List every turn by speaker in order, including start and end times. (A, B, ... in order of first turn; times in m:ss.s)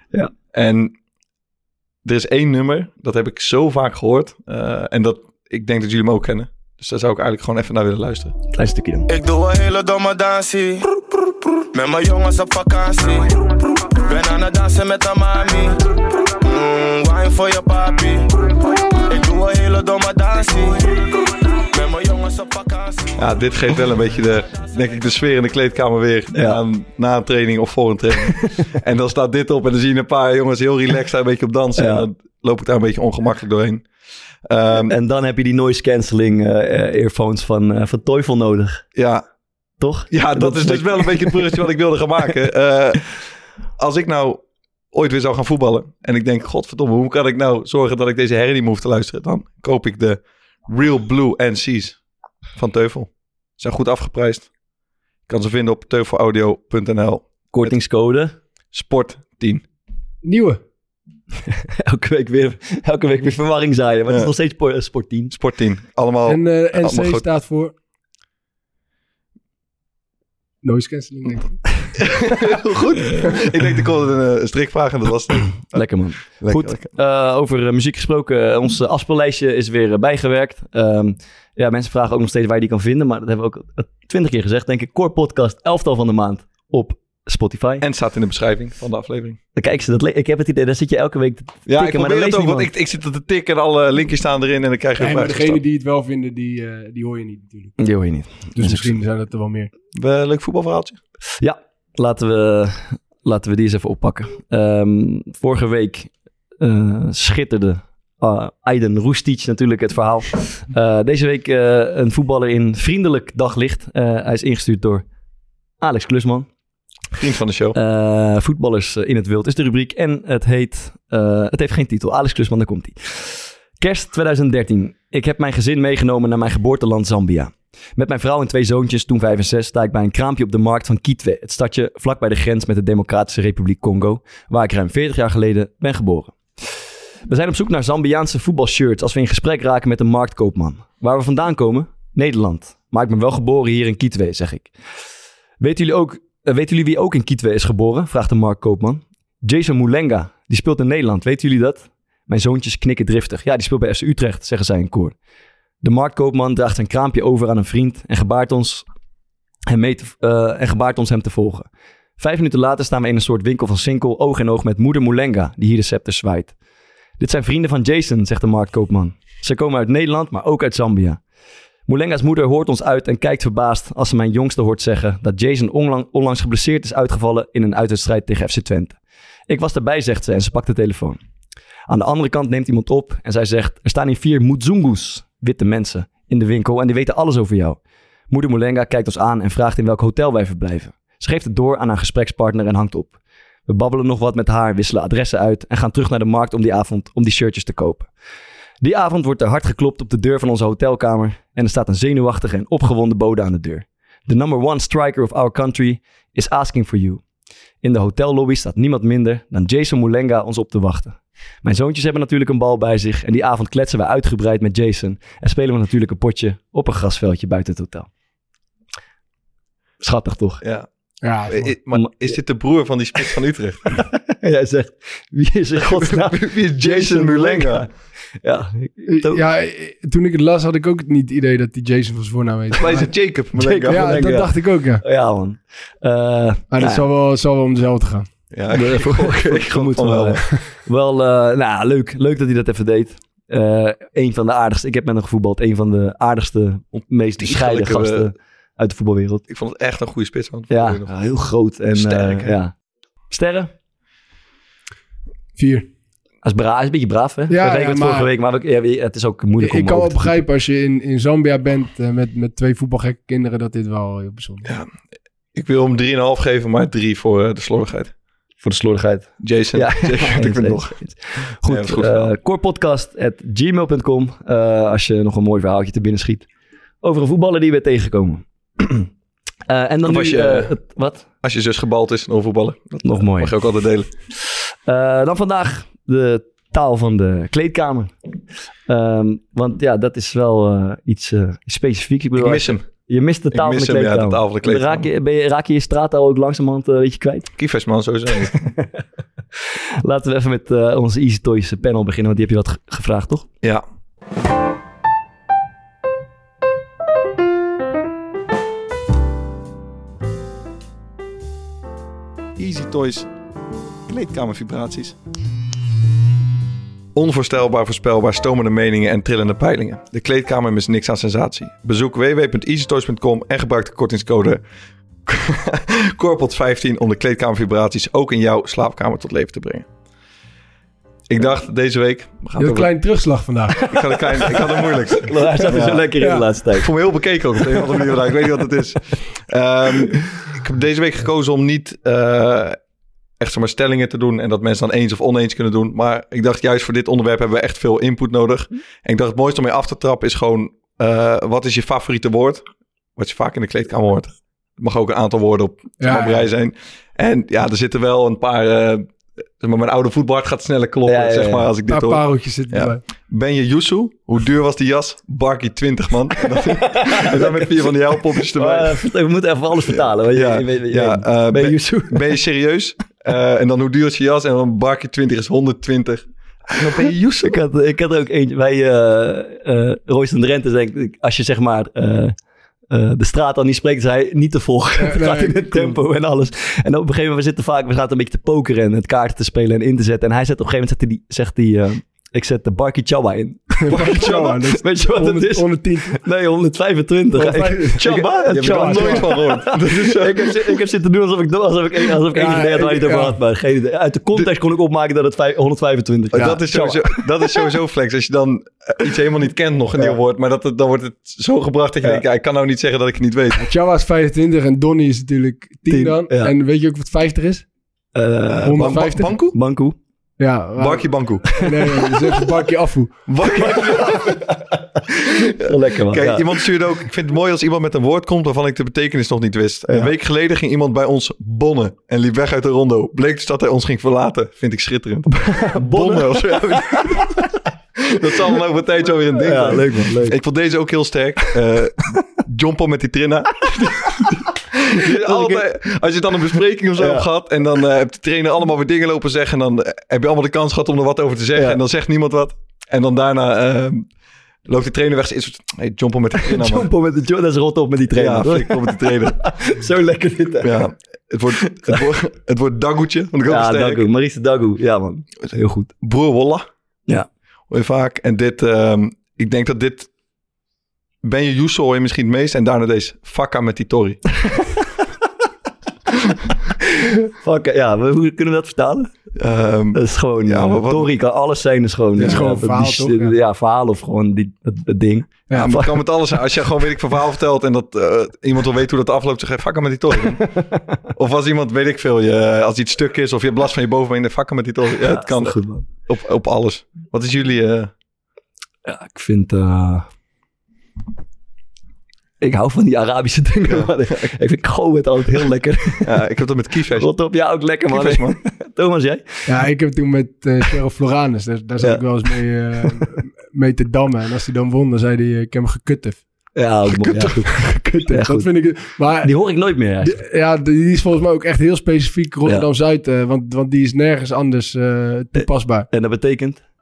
0:00.5-0:00.9 A
0:02.0-0:08.3 A
0:08.5-0:09.1 B
0:09.1-0:10.9 C
0:11.6-0:23.2 C
0:23.2-0:33.8 A
0:26.3-0:26.6 B
0:28.4-0:28.7 B
0:31.8-0:32.0 B
0:34.4-0:34.9 A
0:34.9-0:38.8 B
0:38.9-0:39.2 A
0:39.8-0:41.5 B
0:40.1-0:43.1 A
0:43.8-0:52.0 A
0:52.6-0:54.5 A
0:55.3-0:57.7 A
0:57.5-0:58.3 B
0:58.7-0:59.6 A
1:00.2-1:00.6 D
1:01.5-1:05.3 B
1:05.3-1:07.2 A
1:06.3-1:07.7 D
1:10.6-1:11.9 D
1:12.0-1:15.8 A
1:15.7-1:27.8 B
1:16.4-1:16.9 A
1:27.8-1:29.4 A
1:29.6-1:32.7 B
1:31.7-1:35.6 A
1:35.0-1:37.8 D
1:37.8-1:38.9 B
1:38.5-1:39.7 D
1:40.0-1:41.0 A
1:41.4-1:55.0 B
1:55.8-1:56.5 B
1:57.1-1:57.8 A
1:57.7-2:16.4 B
2:17.3-2:24.7 B
2:25.6-2:35.1 B
2:35.8-2:38.8 B
2:39.7-2:41.7 B
2:42.2-2:46.5 B
2:47.2-2:51.2 B
2:51.9-2:59.0 B
2:59.5-3:01.2 B
3:01.9-3:07.8 B
3:08.3-3:13.1 B
3:13.7-3:18.1 B
3:18.8-3:27.2 B
3:27.8-3:38.1 B
3:40.0-3:40.6 B
3:40.6-3:40.9 A
3:41.2-3:41.7 D
3:41.5-3:43.9 A
3:41.9-3:42.3 B
3:44.1-3:47.9 B
3:45.8-3:47.9 A
3:48.4-3:49.4 B
3:49.1-3:53.1 D
3:52.7-3:54.1 A
3:53.5-3:57.1 B
3:53.9-3:55.0 D
3:56.7-3:58.3 D
3:58.5-4:00.4 A
3:58.7-4:09.4 B
4:06.9-4:08.3 A
4:09.5-4:11.1 A
4:10.7-4:12.7 B
4:11.9-4:12.6 A
4:13.3-4:13.7 B
4:15.6-4:15.9 D
4:16.4-4:20.4 B
4:17.5-4:18.3 D
4:19.6-4:24.7 D
4:25.5-4:28.1 A
4:28.6-4:36.4 B
4:29.4-4:31.0 A
4:31.6-4:32.3 A
4:37.0-4:39.1 B
4:39.7-4:41.2 B
4:40.0-4:40.8 A
4:41.4-4:44.1 A
4:43.0-4:43.5 B
4:44.5-4:48.1 B
4:48.9-4:57.5 B
4:52.4-4:52.9 A
4:53.5-4:55.1 A
4:57.6-4:58.6 A
4:58.5-4:59.0 B
5:00.0-5:03.5 B
5:12.6-5:13.3 A
5:14.1-5:15.2 A
5:17.1-5:24.6 A
5:25.2-5:29.8 A
5:31.3-5:32.9 A
5:32.6-5:34.6 D
5:33.9-5:36.1 A
5:35.1-5:36.9 B
5:36.2-5:36.4 D
5:36.7-5:42.8 A
5:43.4-5:52.6 A
5:53.2-5:59.1 A
5:56.0-5:56.4 D
5:59.6-6:09.0 A
6:01.0-6:01.7 B
6:01.9-6:03.0 D
6:06.7-6:07.7 B
6:08.5-6:12.2 B
6:09.9-6:17.6 A
6:16.8-6:22.3 B
6:22.9-6:47.2 B
6:25.0-6:26.0 D
6:33.8-6:36.2 D
6:33.9-6:34.3 A
6:37.3-6:39.3 D
6:38.0-6:40.8 A
6:42.3-6:43.4 D
6:46.3-6:53.7 A
6:53.6-6:57.6 D
6:55.9-6:56.5 B
6:58.1-7:00.0 B
6:58.6-6:59.6 A
6:58.6-6:59.4 D
7:00.4-7:03.2 D
7:00.8-7:01.5 A
7:03.3-7:04.4 A
7:03.5-7:06.5 B
7:05.4-7:17.4 A
7:15.3-7:17.3 B
7:18.0-7:34.1 A
7:19.4-7:20.4 B
7:25.0-7:25.6 B
7:27.0-7:27.3 B
7:31.5-7:31.8 B
7:34.6-7:36.9 A
7:36.4-7:40.8 B
7:38.1-7:39.4 A
7:40.6-7:44.1 A
7:43.5-7:45.9 B
7:46.0-7:46.6 A
7:47.7-7:50.1 A
7:51.2-7:54.2 A
7:56.8-7:59.1 B
7:59.4-8:01.1 A
7:59.9-8:05.9 B
8:02.2-8:02.4 A
8:02.2-8:03.4 D
8:05.5-8:10.5 A
8:10.6-8:10.8 B
8:11.1-8:17.9 A
8:15.0-8:15.8 B
8:18.8-8:20.1 B
8:22.4-8:26.1 B
8:23.6-8:24.3 A
8:26.0-8:27.1 A
8:27.0-8:29.2 B
8:27.9-8:28.4 A
8:29.4-8:36.2 D
8:36.6-8:38.5 B
8:37.0-8:39.3 D
8:39.2-8:40.2 B
8:40.0-8:45.9 D
8:45.4-8:46.6 B